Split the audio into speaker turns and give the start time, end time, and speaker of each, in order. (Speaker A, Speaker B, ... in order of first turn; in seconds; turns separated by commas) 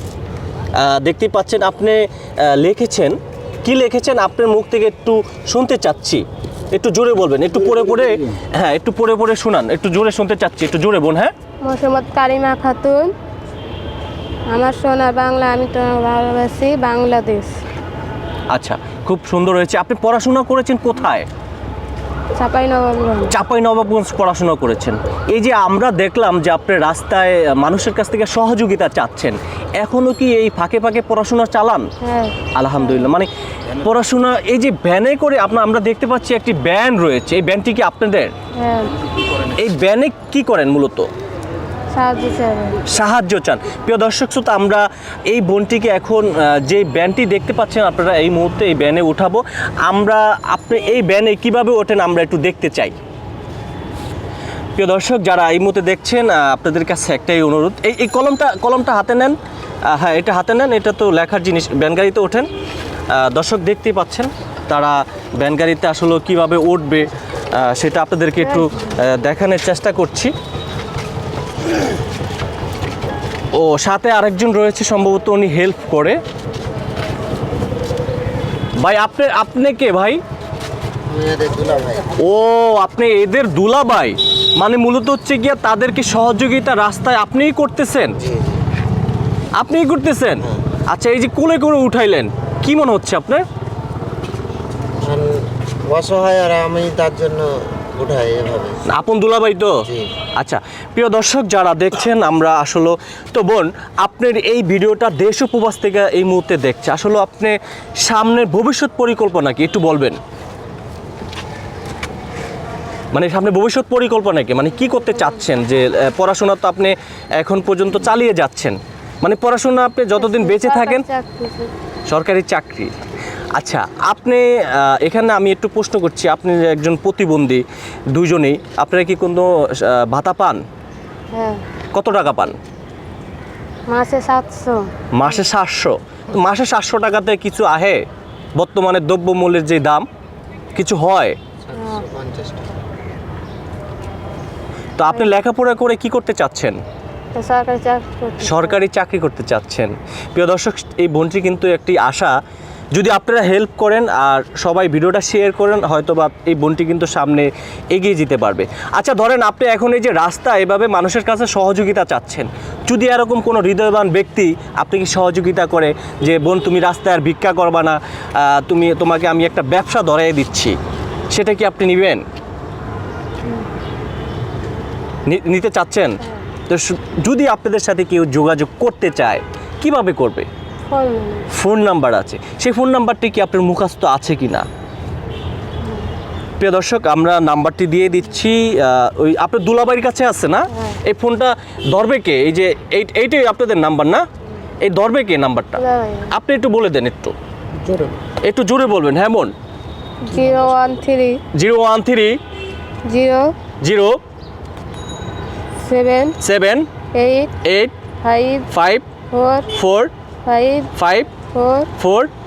Speaker A: 0.8-11.3, Speaker B: 11.6-13.1, Speaker B: 14.5-17.6, Speaker A: 18.5-21.3, Speaker B: 22.4-23.3, Speaker A: 23.3-31.9, Speaker B: 32.0-32.4, Speaker A: 32.5-33.3, Speaker A: 33.8-38.3, Speaker B: 38.6-38.9, Speaker A: 39.5-41.1, Speaker B: 41.9-42.8, Speaker A: 42.9-53.0, Speaker A: 54.8-62.5, Speaker A: 63.1-70.3, Speaker B: 68.5-68.9, Speaker A: 73.5-76.2, Speaker A: 78.8-80.2, Speaker C: 81.1-82.1, Speaker A: 82.2-88.2, Speaker C: 88.2-88.6, Speaker A: 89.6-93.4, Speaker C: 95.0-98.8, Speaker A: 98.9-99.8, Speaker A: 100.4-110.2, Speaker A: 113.1-121.0, Speaker B: 120.2-121.7, Speaker A: 122.1-122.9, Speaker A: 123.5-130.6, Speaker B: 131.3-131.6, Speaker A: 131.9-132.6, Speaker B: 133.9-134.9, Speaker A: 135.1-138.0, Speaker A: 138.6-140.1, Speaker A: 140.7-141.4, Speaker C: 141.7-142.7, Speaker B: 141.7-142.0, Speaker A: 145.0-146.8, Speaker B: 145.1-145.4, Speaker B: 147.3-148.8, Speaker A: 148.4-152.4, Speaker A: 152.9-170.8, Speaker A: 171.3-172.2, Speaker A: 175.2-180.5, Speaker B: 180.9-181.5, Speaker A: 181.5-184.7, Speaker A: 186.6-194.2, Speaker A: 194.8-197.3, Speaker B: 195.8-196.3, Speaker A: 198.4-199.5, Speaker B: 200.2-201.4, Speaker A: 201.5-202.4, Speaker B: 203.1-203.5, Speaker A: 203.8-204.2, Speaker B: 205.8-206.4, Speaker A: 206.4-206.9, Speaker B: 207.1-207.6, Speaker A: 207.6-207.9, Speaker B: 208.2-208.7, Speaker A: 208.7-209.0, Speaker B: 209.3-209.7, Speaker A: 209.7-210.1, Speaker B: 210.4-210.9, Speaker A: 210.9-211.3, Speaker B: 211.5-211.9, Speaker A: 212.0-212.3